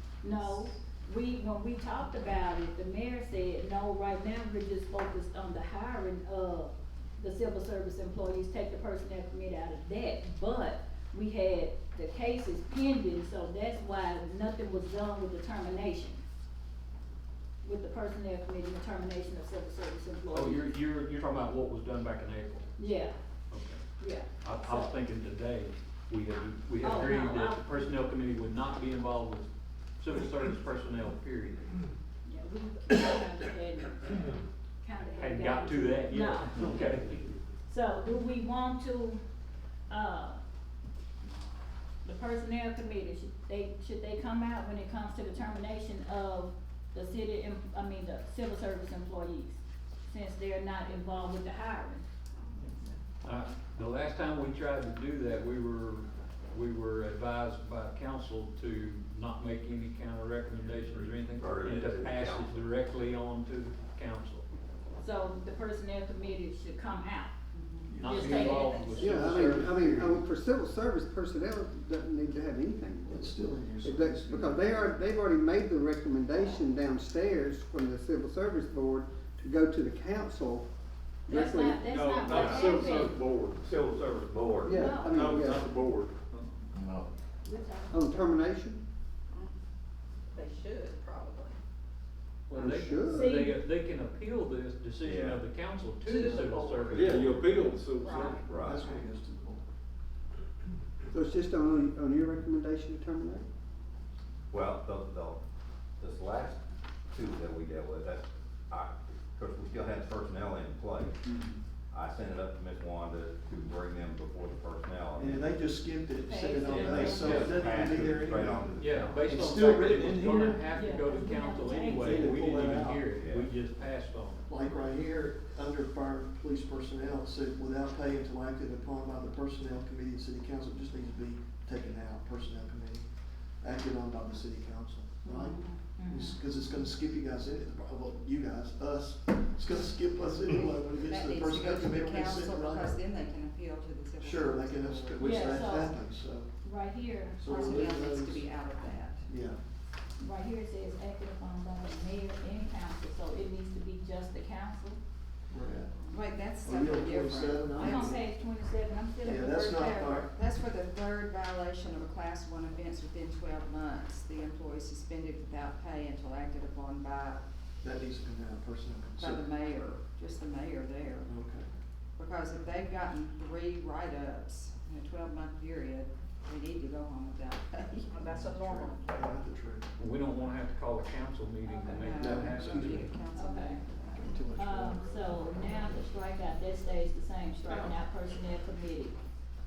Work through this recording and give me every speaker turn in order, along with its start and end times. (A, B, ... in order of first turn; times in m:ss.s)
0:00.2-0:16.2 A
0:17.6-0:20.8 A
0:20.3-0:22.7 B
0:22.8-0:23.2 A
0:23.5-0:23.8 B
0:24.0-0:24.9 A
0:24.4-0:31.8 B
0:26.8-0:27.8 A
0:32.2-0:37.1 A
0:35.2-0:37.2 B
0:37.6-0:39.2 A
0:39.9-0:40.4 A
0:42.0-0:52.0 A
0:53.2-1:04.4 B
1:00.8-1:02.7 C
1:05.0-1:07.3 A
1:07.5-1:07.9 D
1:07.9-1:10.1 E
1:08.0-1:09.2 A
1:08.0-1:10.2 B
1:09.0-1:20.7 F
1:13.0-1:14.7 E
1:21.2-1:21.8 F
1:21.3-1:23.2 A
1:21.9-1:23.8 G
1:22.0-1:22.8 C
1:23.6-1:24.8 C
1:24.6-1:25.7 F
1:24.7-1:25.4 A
1:25.1-1:26.1 G
1:26.7-1:27.1 E
1:27.4-1:28.4 A
1:27.9-1:28.8 F
1:30.3-1:31.6 D
1:32.5-1:37.6 B
1:32.5-1:33.4 F
1:33.1-1:33.6 A
1:35.0-1:35.4 C
1:36.0-1:36.8 D
1:36.7-1:37.6 C
1:36.9-1:38.6 G
1:37.9-1:39.0 D
1:38.4-1:38.9 C
1:38.5-1:39.6 E
1:41.1-1:43.5 F
1:44.5-1:45.4 C
1:46.0-1:46.6 C
1:47.1-1:51.2 C
1:51.3-1:51.6 B
1:51.9-1:55.5 C
1:55.1-2:00.6 E
1:56.2-1:58.0 A
1:56.6-1:57.6 B
1:56.8-1:59.2 C
1:58.8-2:04.4 B
2:00.7-2:02.3 A
2:01.7-2:03.1 E
2:03.1-2:03.5 C
2:04.5-2:13.1 E
2:13.6-2:23.0 E
2:15.3-2:16.4 A
2:20.5-2:25.7 D
2:24.2-2:26.5 E
2:25.2-2:26.0 A
2:26.6-2:27.5 A
2:27.4-2:28.5 E
2:27.4-2:29.2 D
2:29.3-2:29.6 E
2:30.2-2:35.0 A
2:35.5-2:38.2 E
2:36.1-2:38.1 D
2:37.7-2:40.2 A
2:39.2-2:40.4 E
2:40.2-2:47.4 D
2:47.8-2:49.5 E
2:49.2-2:51.3 D
2:51.2-2:51.7 E
2:52.2-2:59.0 D
2:58.2-2:59.9 E
3:00.0-3:03.0 B
3:01.6-3:02.1 A
3:01.9-3:04.4 D
3:02.1-3:03.1 E
3:03.3-3:03.8 A
3:04.1-3:05.6 E
3:04.5-3:09.2 A